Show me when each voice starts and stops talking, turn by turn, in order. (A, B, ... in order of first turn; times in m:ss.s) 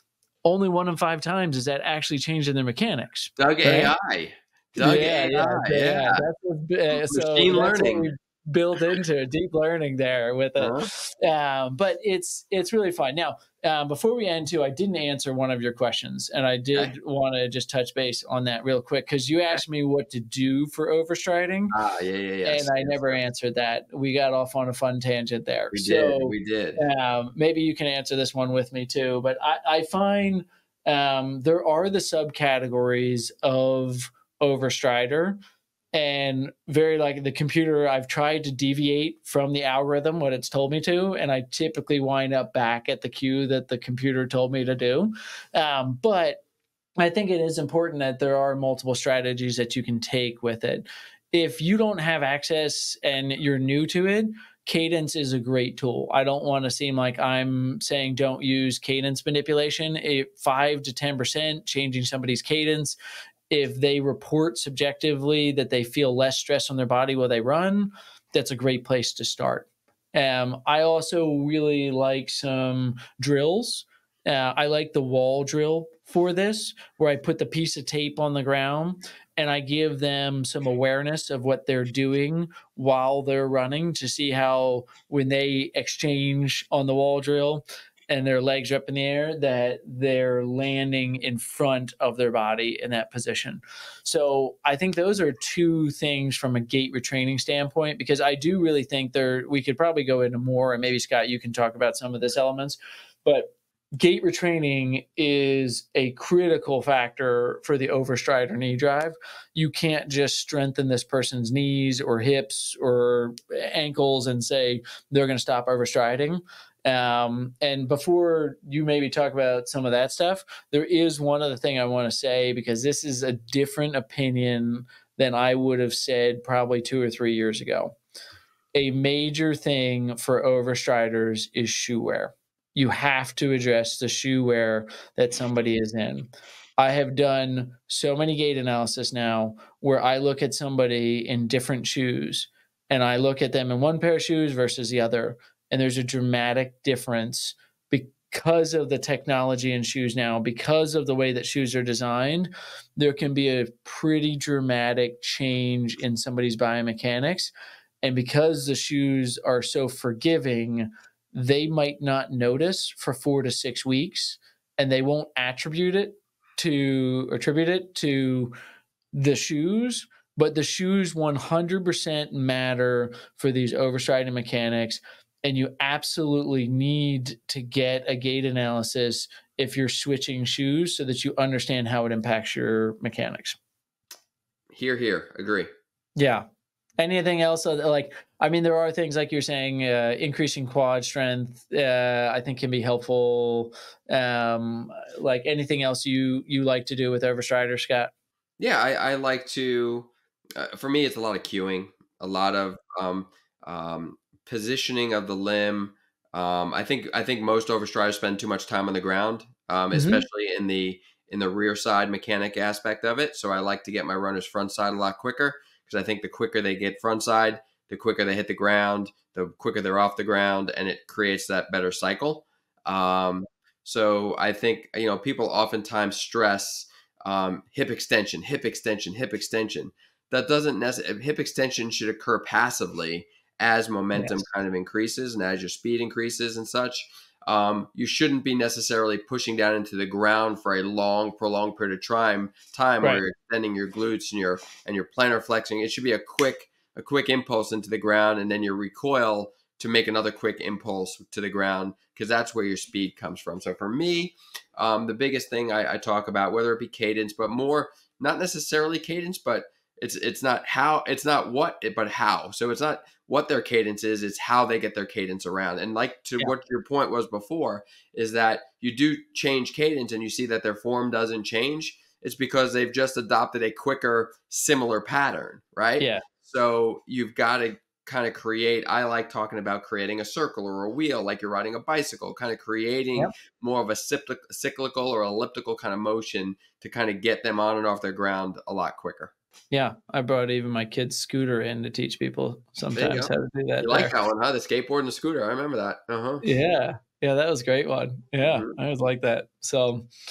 0:00.4-0:03.9 A
0:03.4-0:06.2 B
0:04.8-0:21.7 A
0:06.9-0:08.1 B
0:10.6-0:10.9 B
0:21.7-0:23.2 B
0:22.4-0:35.4 A
0:25.7-0:26.8 B
0:35.9-0:46.4 A
0:47.0-1:03.0 A
1:03.5-2:08.0 A
2:08.7-2:16.3 A
2:16.8-2:48.5 A
2:49.1-3:03.6 A
3:04.7-3:05.7 B
3:06.2-3:06.4 A
3:07.0-3:18.1 A
3:18.6-4:49.3 B
3:29.9-3:30.2 A
3:54.1-3:54.4 A
4:36.0-4:36.2 A
4:49.7-4:54.1 A
4:53.0-4:56.4 B
4:56.4-5:00.1 A
4:58.4-4:58.7 B